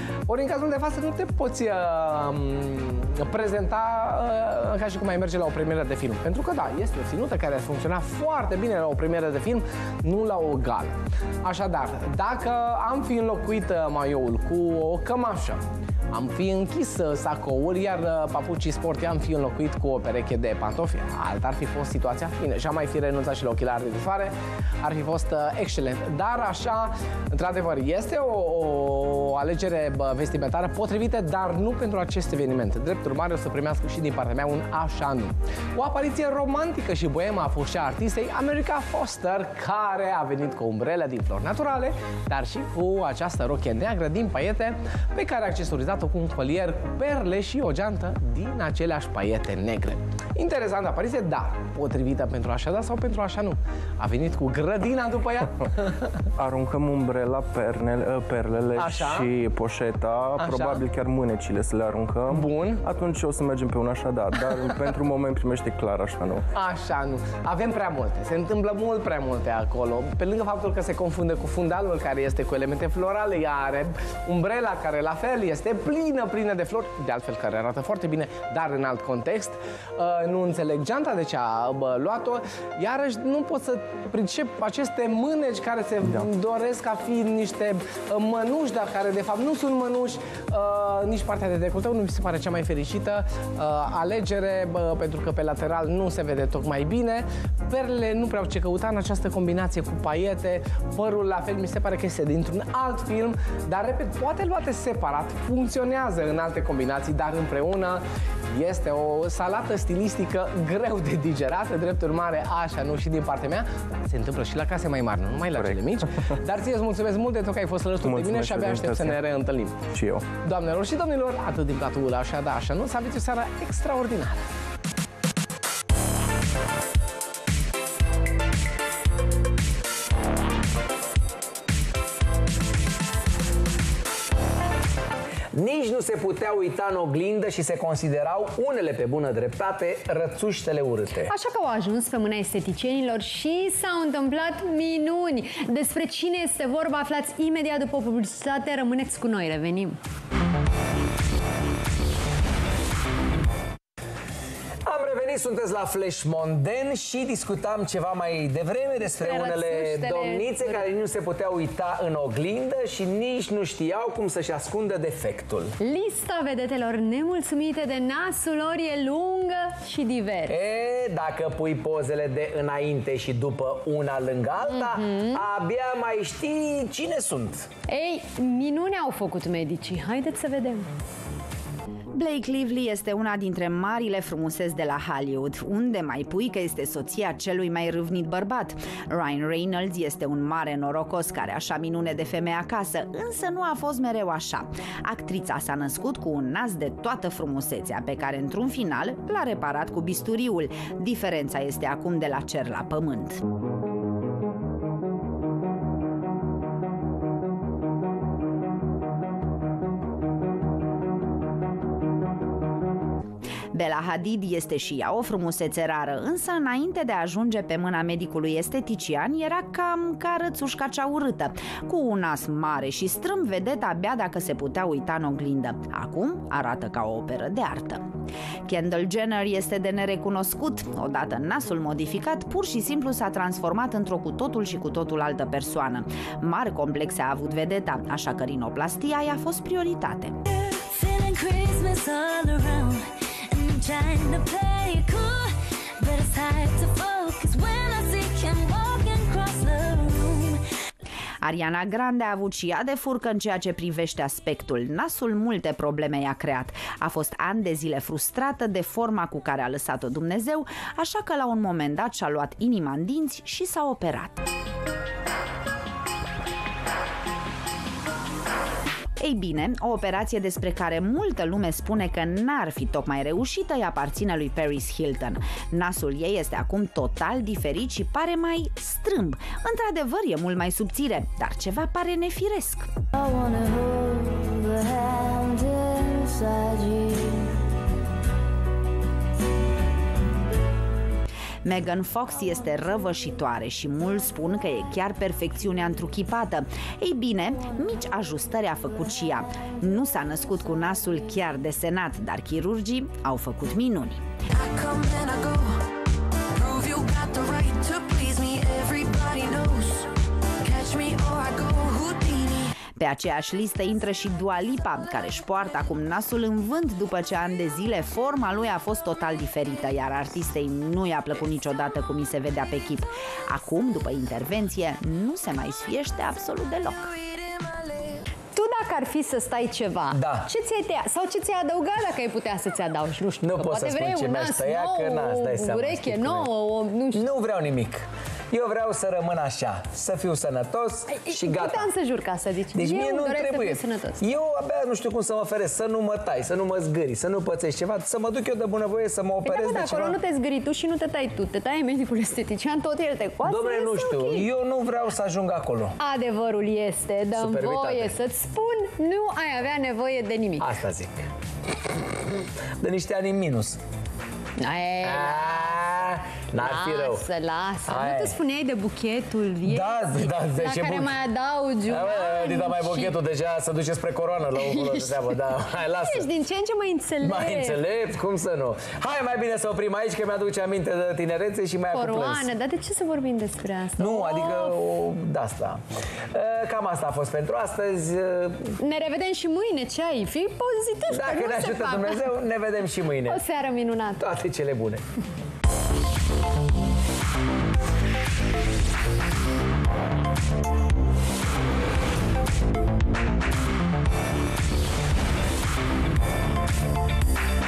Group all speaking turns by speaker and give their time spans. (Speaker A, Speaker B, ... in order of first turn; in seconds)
Speaker A: 0.3-56.1, 58.8-59.3, 60.4-60.8, 62.3-62.8, 64.6-64.8, 66.5-119.8, 120.4-124.4
Speaker B: 56.4-66.4, 86.0-86.3, 115.5-116.3, 118.0-119.2, 119.9-120.2
Speaker C: 135.5-141.3, 154.8-165.7, 170.5-177.7, 330.1-330.5, 333.4-336.5, 337.1-341.9, 342.7-350.1, 353.4-355.9, 357.3-358.1, 360.6-361.3, 362.2-363.8, 365.0-367.2, 367.9-368.3, 369.6-371.2, 371.9-376.3, 377.2-382.5, 384.0-388.7, 391.1-393.4, 394.2-395.0
Speaker D: 141.3-150.0, 159.0-160.9, 165.8-170.6, 174.7-175.4, 177.9-180.9, 328.5-337.2, 341.1-344.2, 349.4-354.5, 356.0-360.7, 364.6-365.8, 366.6-373.1, 374.7-375.1, 376.0-377.8, 381.9-384.8, 388.8-392.4, 393.3-394.3
Speaker E: 182.1-203.4, 213.7-228.1, 228.7-240.4, 251.4-264.5, 269.2-282.9, 291.6-304.2, 312.9-327.1
Speaker F: 240.9-245.5, 246.0-250.6, 283.1-287.4, 304.5-305.8, 306.5-310.1, 310.6-312.7